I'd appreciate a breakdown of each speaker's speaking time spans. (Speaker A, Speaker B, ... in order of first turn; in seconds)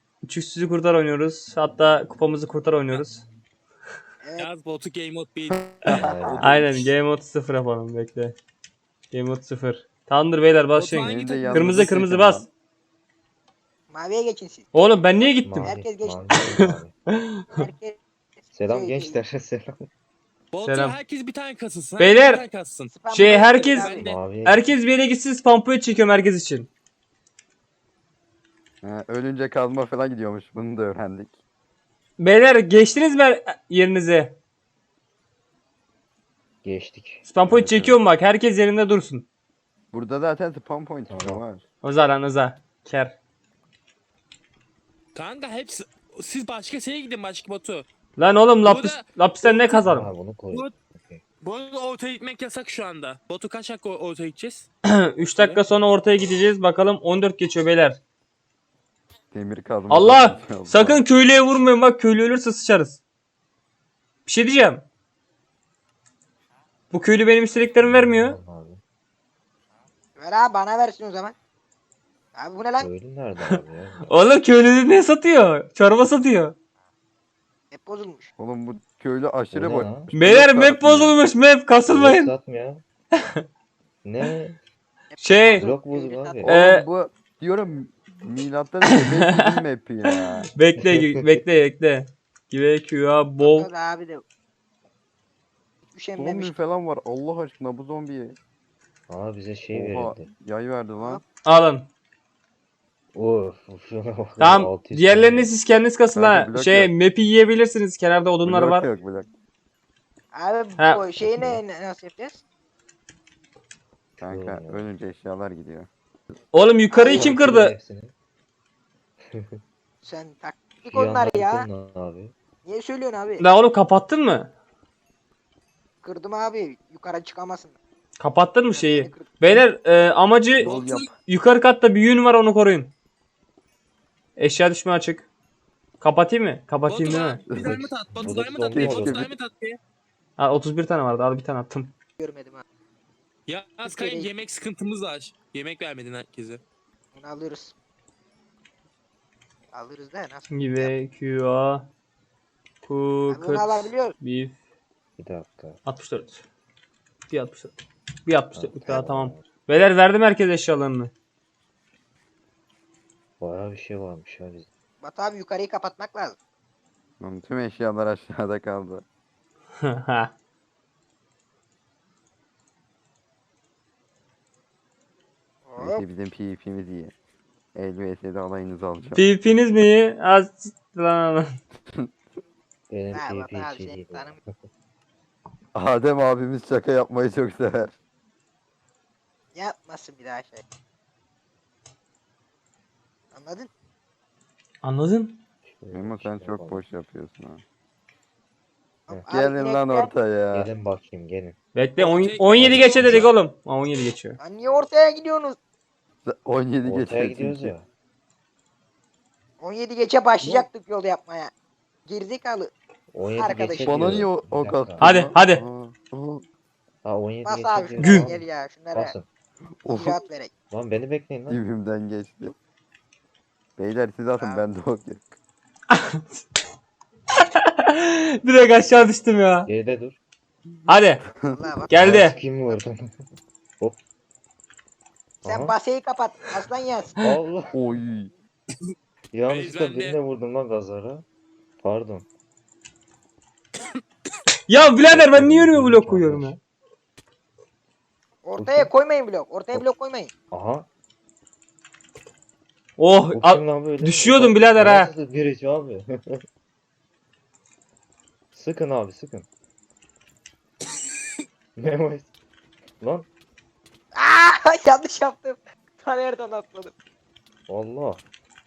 Speaker A: 0.2-3.2, 6.4-8.3, 9.1-12.5, 14.7-15.7, 20.6-20.9, 22.0-22.4, 23.1-23.9, 24.4-26.7, 32.2-34.4, 37.2-39.3, 41.8-43.1, 48.2-50.1, 54.9-58.0, 59.9-63.0, 64.2-64.8, 66.9-68.4, 74.1-76.5, 80.1-82.3, 85.2-85.6, 86.4-86.8, 90.5-93.7, 101.4-101.9, 104.4-108.9, 110.8-111.1, 116.5-117.7, 123.4-124.5, 128.2-132.9, 134.4-135.2, 136.0-137.4, 140.4-141.9, 150.5-151.9, 152.8-154.6, 155.8-156.4, 157.3-161.1, 169.8-170.3, 179.1-181.5, 194.8-195.4, 201.7-204.4, 215.0-215.6, 218.0-218.2, 225.9-226.4, 227.8-229.7, 230.9-231.2, 231.9-232.3, 244.7-246.6, 253.0-255.1
Speaker B: 4.2-4.5, 13.9-16.4, 17.6-19.2, 22.9-24.1, 70.2-71.3, 72.3-72.9, 77.7-78.3, 85.1-86.5, 93.4-94.2, 95.9-96.5, 101.0-101.2, 110.3-112.4, 116.9-117.3, 120.0-121.7, 122.6-123.4, 126.0-127.8, 128.7-129.4, 142.2-142.6, 143.8-144.3, 147.1-147.7, 149.7-150.9, 153.3-154.1, 165.0-166.3, 175.7-176.0, 183.1-184.4, 189.5-190.6, 193.3-193.7, 199.1-200.1, 204.4-205.6, 209.6-211.5, 212.1-212.7, 213.3-214.2, 217.4-219.1, 219.8-220.5, 224.4-224.6, 231.5-232.8, 235.4-237.2, 248.4-250.3, 264.1-266.9
Speaker C: 4.4-5.6, 10.8-11.8, 20.5-22.9, 23.8-24.1, 45.1-47.8, 48.6-49.6, 51.4-55.6, 130.6-131.1, 136.9-139.8, 143.5-146.6, 202.0-202.7, 239.5-240.2
Speaker D: 5.5-6.9, 10.9-12.4, 28.8-31.4, 37.5-38.0, 39.9-41.6, 59.3-61.0, 78.4-81.2, 86.4-90.5, 96.2-98.4, 99.7-101.2, 106.1-106.9, 108.4-109.3, 114.2-115.9, 130.6-131.1, 137.5-137.8, 138.6-139.3, 167.2-169.0, 175.8-177.1, 177.7-179.2, 185.7-187.9, 195.9-197.6, 199.3-200.7, 202.6-203.3, 206.2-207.7, 210.4-210.7, 213.8-216.4, 219.8-220.2, 221.5-222.5, 223.8-225.3, 231.4-231.8, 237.7-238.3
Speaker E: 5.8-6.6, 15.4-16.9, 18.5-19.8, 24.0-24.6, 36.6-37.3, 41.1-41.4, 49.8-51.2, 67.8-68.8, 72.8-74.1, 79.5-80.1, 81.9-82.8, 84.0-84.6, 85.6-86.5, 90.9-91.2, 99.1-100.3, 103.1-105.5, 111.2-111.6, 114.2-114.8, 117.1-118.1, 119.3-119.6, 120.8-122.3, 137.5-139.3, 155.2-155.8, 158.5-159.5, 163.4-164.7, 182.9-184.5, 195.6-196.8, 200.5-201.6, 202.6-203.3, 206.8-207.8, 213.1-215.1, 217.0-219.2, 220.7-221.6, 229.7-230.2, 232.0-233.1, 235.4-235.7, 237.2-237.7, 239.3-241.2, 241.8-242.2, 245.0-246.6, 248.6-248.9, 250.5-250.9, 253.3-256.4, 258.5-259.5, 261.8-262.3, 263.0-263.3, 267.7-268.2